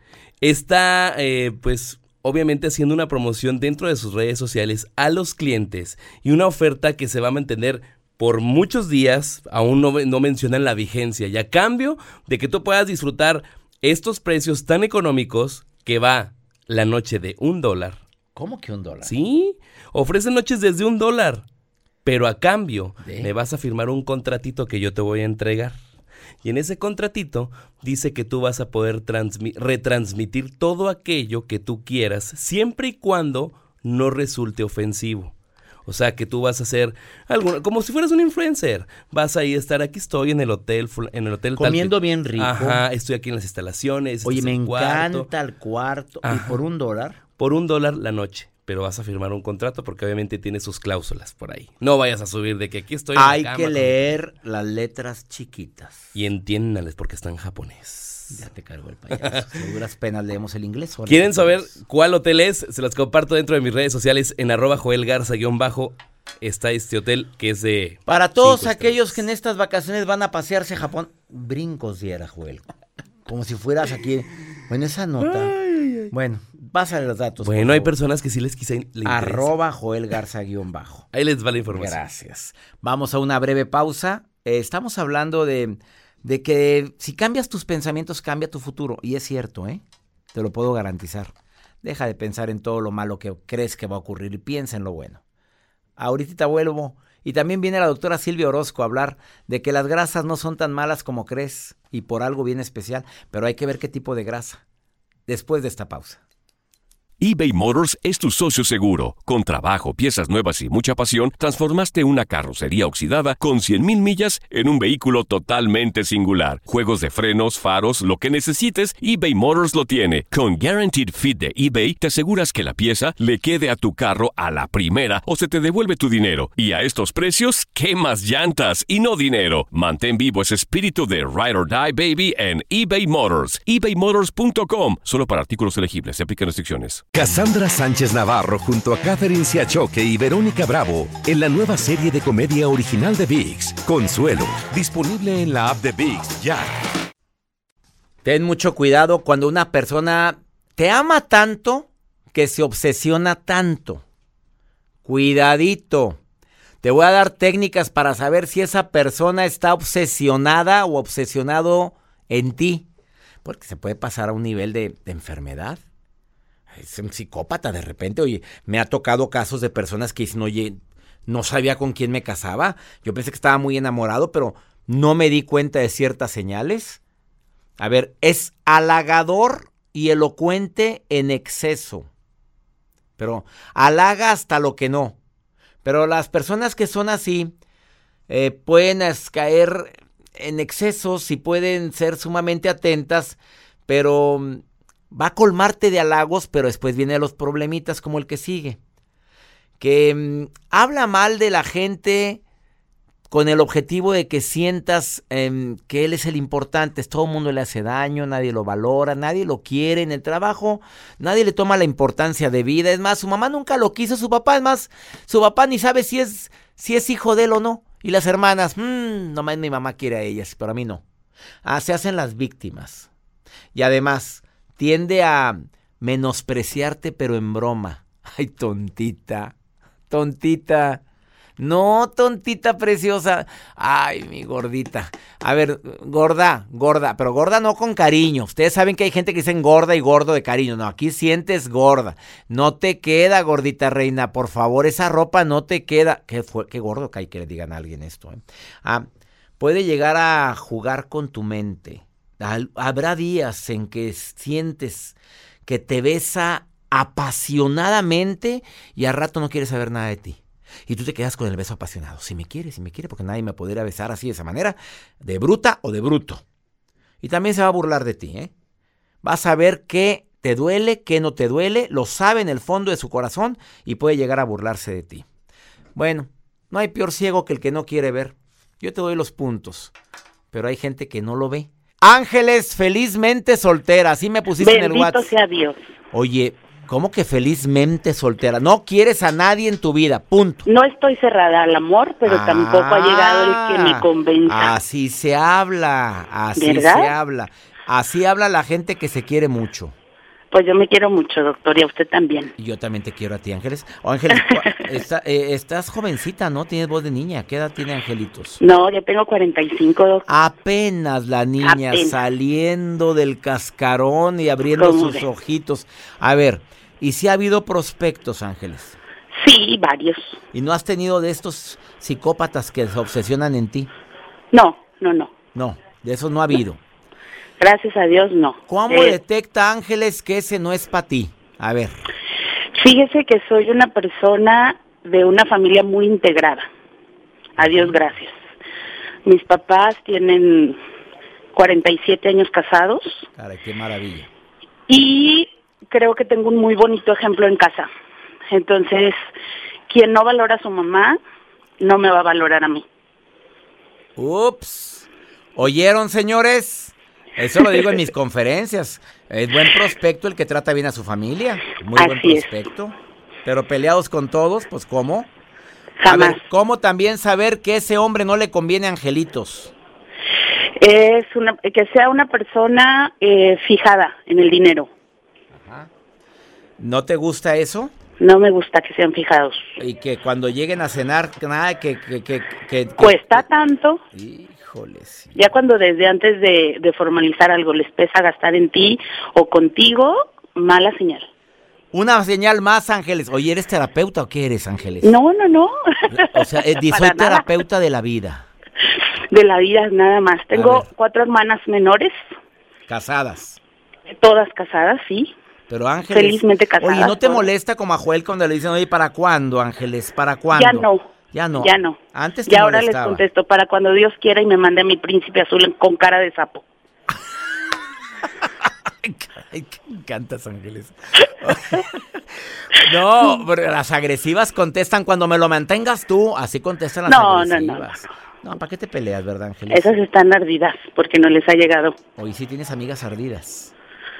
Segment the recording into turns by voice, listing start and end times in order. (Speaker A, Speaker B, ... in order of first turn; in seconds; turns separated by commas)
Speaker A: 0.4-18.0, Speaker B: 18.4-19.1, Speaker A: 19.1-21.4, Speaker A: 22.1-25.8, Speaker B: 23.0-23.3, Speaker A: 26.4-35.3, Speaker A: 35.9-45.3, Speaker B: 41.6-42.8, Speaker B: 44.2-47.2, Speaker A: 46.2-46.6, Speaker A: 47.4-54.0, Speaker B: 53.1-56.1, Speaker A: 56.1-58.4, Speaker B: 58.3-61.7, Speaker A: 59.2-59.5, Speaker A: 61.1-69.0, Speaker B: 68.1-72.7, Speaker B: 73.3-75.5, Speaker A: 75.2-76.1, Speaker B: 76.1-77.9, Speaker A: 77.4-79.5, Speaker B: 79.0-81.1, Speaker A: 81.1-82.0, Speaker B: 81.7-89.8, Speaker B: 90.3-91.3, Speaker B: 91.8-95.2, Speaker B: 96.0-104.6, Speaker B: 105.3-106.2, Speaker C: 107.2-137.1, Speaker D: 137.1-146.8, Speaker B: 148.2-154.0, Speaker B: 155.0-156.2, Speaker B: 156.8-162.9, Speaker B: 163.4-165.8, Speaker B: 166.7-177.0, Speaker B: 177.8-182.1, Speaker B: 183.2-185.2, Speaker B: 185.8-187.6, Speaker B: 188.3-198.8, Speaker B: 199.8-202.4, Speaker B: 203.3-221.0, Speaker B: 221.6-223.1, Speaker B: 223.7-229.6, Speaker B: 230.1-231.0, Speaker B: 231.6-249.1, Speaker B: 249.6-266.4, Speaker B: 267.2-268.5, Speaker B: 269.2-275.3, Speaker B: 275.9-279.9, Speaker B: 280.5-285.3, Speaker E: 284.6-285.8, Speaker B: 286.1-290.7, Speaker E: 290.7-294.8, Speaker B: 292.2-299.9, Speaker E: 296.6-297.1, Speaker E: 300.5-302.5, Speaker B: 302.6-308.6, Speaker E: 308.6-310.2, Speaker B: 310.3-319.0, Speaker E: 311.6-312.1, Speaker E: 314.8-315.2, Speaker E: 319.4-320.4, Speaker B: 320.5-323.9, Speaker E: 324.5-325.3, Speaker B: 325.5-326.8, Speaker E: 327.6-329.2, Speaker B: 328.7-332.0, Speaker E: 332.8-336.7, Speaker E: 337.6-338.3, Speaker B: 337.6-338.0, Speaker E: 339.3-340.8, Speaker E: 341.5-343.3, Speaker B: 343.4-344.3, Speaker E: 344.9-347.9, Speaker E: 348.5-349.2, Speaker E: 349.9-351.2, Speaker E: 351.8-352.9, Speaker B: 354.2-365.3, Speaker E: 362.0-362.5, Speaker E: 366.0-366.4, Speaker B: 366.1-369.7, Speaker E: 370.8-374.9, Speaker B: 375.5-375.9, Speaker B: 376.8-377.9, Speaker E: 378.2-379.7, Speaker B: 379.8-383.5, Speaker E: 383.0-384.0, Speaker B: 384.1-385.5, Speaker E: 385.4-391.3, Speaker B: 391.9-395.2, Speaker E: 395.0-397.5, Speaker B: 396.1-398.5, Speaker E: 399.3-402.1, Speaker B: 400.5-400.9, Speaker B: 402.9-403.6, Speaker E: 404.2-405.3, Speaker B: 405.7-413.2, Speaker E: 406.1-407.5, Speaker E: 410.5-411.1, Speaker E: 411.6-416.6, Speaker B: 418.4-422.2, Speaker B: 422.7-430.0, Speaker E: 427.1-427.9, Speaker E: 429.7-431.9, Speaker B: 432.2-433.7